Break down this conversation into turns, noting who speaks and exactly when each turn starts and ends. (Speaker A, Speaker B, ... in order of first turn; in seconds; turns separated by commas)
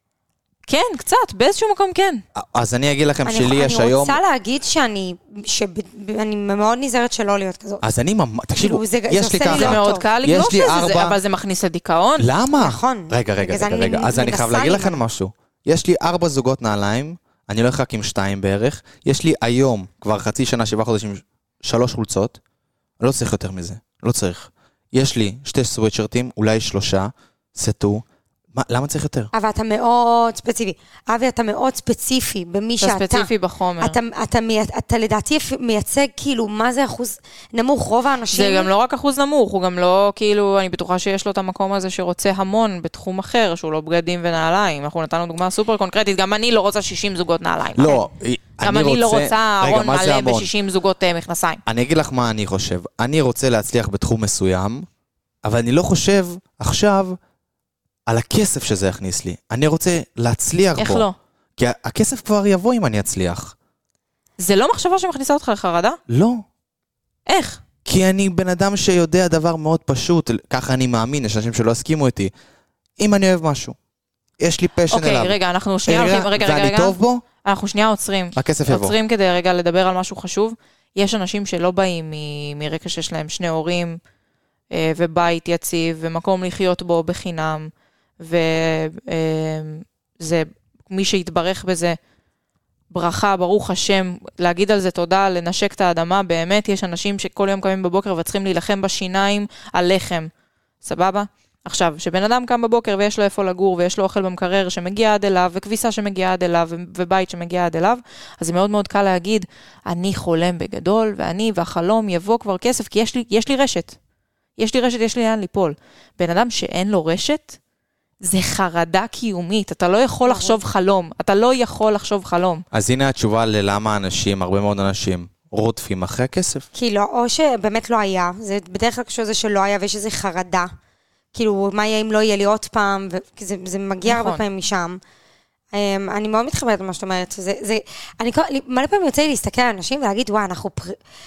Speaker A: 0.7-2.2, Speaker B: 2.4-4.2, Speaker C: 3.2-7.8, Speaker B: 7.8-11.2, Speaker C: 8.6-10.1, Speaker A: 9.4-12.3, Speaker B: 12.2-22.4, Speaker C: 12.6-15.0, Speaker B: 23.0-28.0, Speaker B: 28.5-29.3, Speaker C: 29.3-33.3, Speaker A: 32.8-34.0, Speaker C: 33.8-38.7, Speaker A: 38.3-48.1, Speaker B: 47.8-50.5, Speaker A: 48.6-51.6, Speaker B: 51.6-54.9, Speaker B: 55.4-57.2, Speaker B: 58.1-61.1, Speaker A: 60.8-61.1, Speaker B: 61.6-63.5, Speaker A: 64.4-66.0, Speaker B: 66.1-66.4, Speaker A: 67.2-67.6, Speaker B: 67.8-72.3, Speaker B: 73.0-73.8, Speaker B: 74.4-77.2, Speaker A: 74.9-84.0, Speaker B: 78.3-79.0, Speaker A: 84.7-92.0, Speaker A: 92.9-100.3, Speaker A: 100.8-114.0, Speaker A: 114.6-117.6, Speaker A: 118.2-122.6, Speaker C: 120.2-120.6, Speaker B: 122.7-126.7, Speaker C: 126.7-130.7, Speaker C: 131.3-135.0, Speaker A: 134.0-134.4, Speaker C: 135.7-141.0